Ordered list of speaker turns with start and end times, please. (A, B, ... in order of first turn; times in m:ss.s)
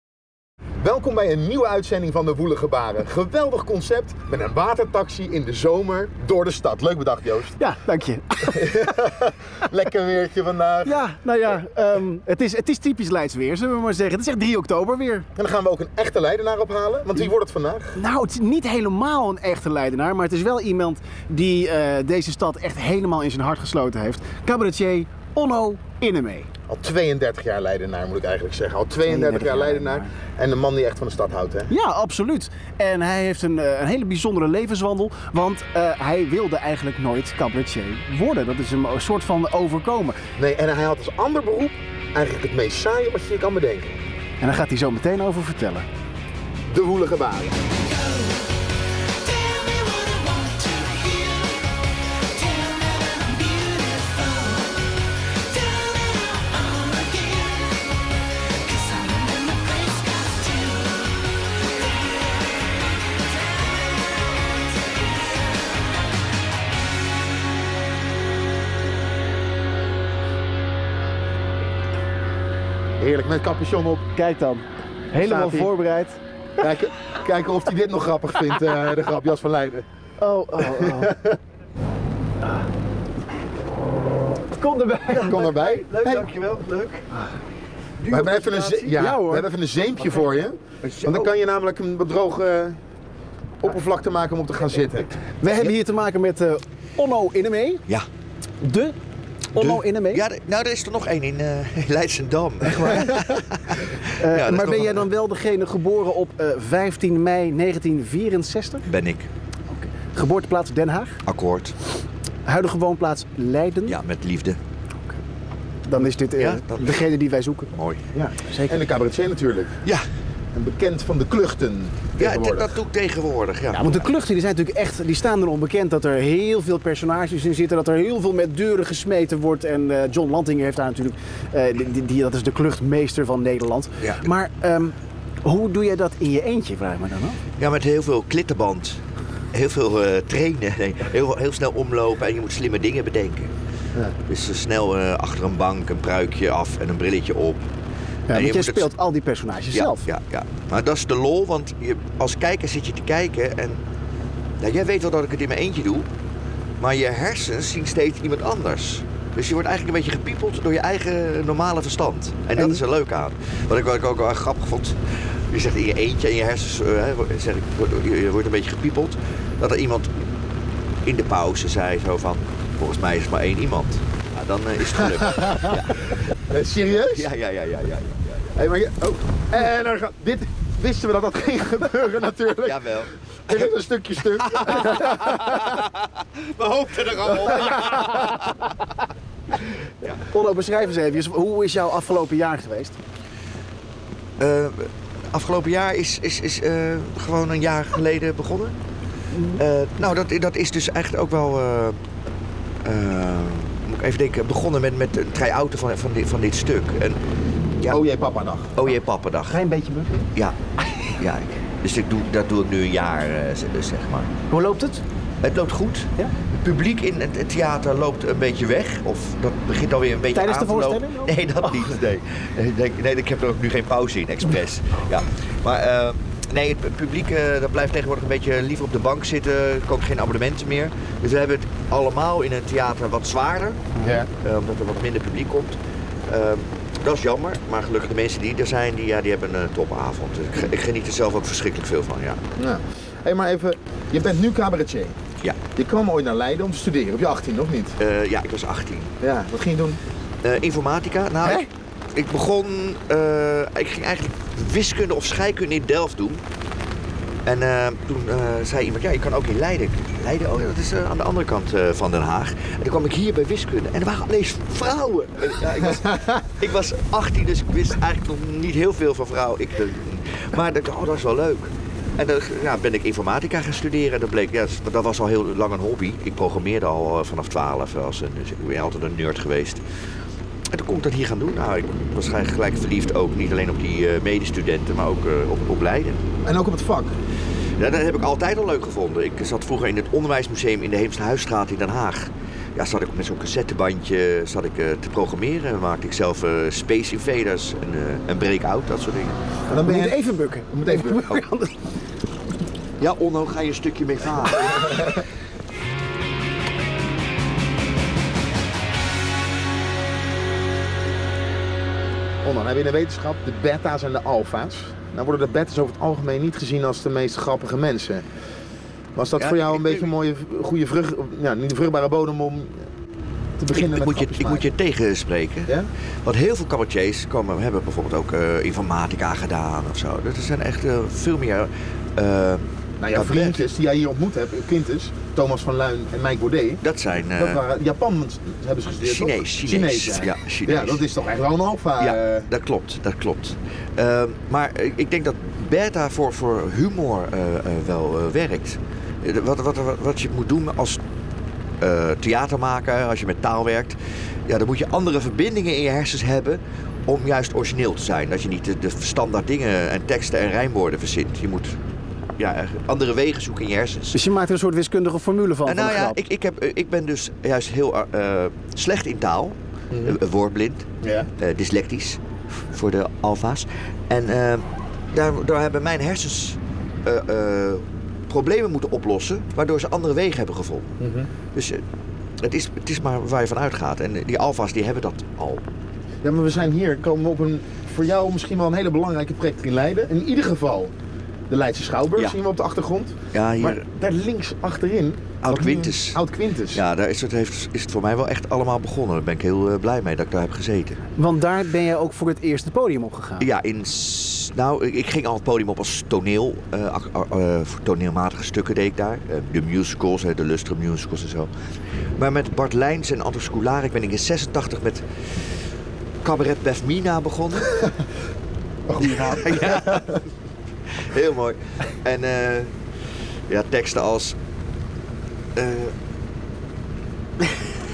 0:00.8-0:07.6 A
0:07.6-0:09.0 B
0:08.5-0:11.0 A
0:10.8-0:15.3 B
0:15.3-0:18.0 A
0:18.0-0:26.5 B
0:26.7-0:31.7 A
0:29.1-0:30.1 B
0:31.7-0:40.2 B
0:40.4-0:44.0 A
0:44.4-0:45.8 B
0:46.7-0:47.6 A
0:48.0-0:48.4 B
0:49.2-0:51.7 B
0:52.3-0:57.9 B
0:58.6-1:01.0 B
1:13.0-1:14.1 A
1:14.2-1:16.2 B
1:15.2-1:15.7 A
1:16.6-1:19.8 A
1:20.2-1:21.2 B
1:20.6-1:21.4 A
1:24.5-1:25.6 B
1:25.2-1:26.3 A
1:25.3-1:27.0 C
1:28.0-1:28.9 C
1:28.1-1:32.8 A
1:28.5-1:29.5 B
1:30.8-1:31.3 C
1:33.6-1:35.2 A
1:35.4-1:37.8 B
1:38.6-1:39.0 B
1:39.5-1:40.2 B
1:39.6-1:45.0 C
1:42.6-1:43.3 B
1:44.1-1:48.8 B
1:48.9-1:49.3 C
1:49.7-1:51.2 B
1:51.2-1:51.8 C
1:52.4-1:54.0 B
1:53.9-1:54.6 C
1:55.8-1:57.7 B
1:56.4-1:57.0 C
1:57.7-1:58.0 C
1:58.1-1:59.8 A
1:58.4-1:58.8 B
2:00.5-2:02.8 A
2:02.2-2:04.1 C
2:03.7-2:17.4 B
2:17.6-2:23.5 C
2:24.3-2:27.7 C
2:28.3-2:30.1 B
2:28.3-2:28.8 C
2:29.7-2:33.8 C
2:34.6-2:36.1 C
2:36.8-2:50.2 C
2:51.0-2:56.3 C
2:55.3-2:55.8 A
2:56.4-2:57.3 A
2:57.0-2:58.5 C
2:58.5-3:05.8 A
3:02.6-3:03.6 C
3:04.3-3:08.7 C
3:10.3-3:13.0 B
3:14.4-3:18.8 C
3:19.3-3:19.6 B
3:19.6-3:22.0 C
3:22.8-3:27.2 C
3:27.9-3:28.9 A
3:28.8-3:29.6 C
3:29.5-3:30.2 B
3:30.4-3:34.3 C
3:34.5-3:35.0 B
3:35.4-4:02.4 C
3:40.3-3:41.9 B
3:54.0-3:54.3 A
4:02.6-4:05.2 A
4:05.7-4:08.0 A
4:08.0-4:09.1 C
4:09.2-4:10.0 A
4:10.4-4:16.4 C
4:17.4-4:39.8 C
4:40.7-4:46.2 C
4:46.4-4:47.1 A
4:47.8-4:59.4 C
4:59.7-5:01.3 A
4:59.7-5:01.8 B
5:03.0-5:05.2 C
5:12.4-5:18.3 A
5:19.1-5:22.9 A
5:19.4-5:20.1 C
5:23.6-5:24.6 A
5:23.7-5:33.6 C
5:33.0-5:36.8 A
5:36.8-5:37.6 C
5:37.4-5:42.5 A
5:39.0-5:41.0 C
5:42.0-5:51.0 C
5:51.8-6:01.8 C
6:02.4-6:04.2 C
6:04.1-6:06.2 B
6:05.6-6:10.9 C
6:09.9-6:10.2 A
6:11.0-6:11.3 A
6:11.4-6:12.2 C
6:12.7-6:20.9 C
6:21.0-6:21.3 A
6:21.5-6:21.8 C
6:22.4-6:25.6 C
6:26.2-6:30.9 A
6:31.5-6:36.8 A
6:33.3-6:33.8 C
6:35.4-6:41.0 C
6:41.2-6:43.5 B
6:43.4-6:51.5 C
6:52.2-6:55.6 C
6:56.2-6:57.8 C
6:58.9-7:00.2 A
6:59.0-7:00.2 C
7:01.0-7:02.7 C
7:03.5-7:04.4 C
7:05.6-7:05.9 C
7:07.4-7:07.7 C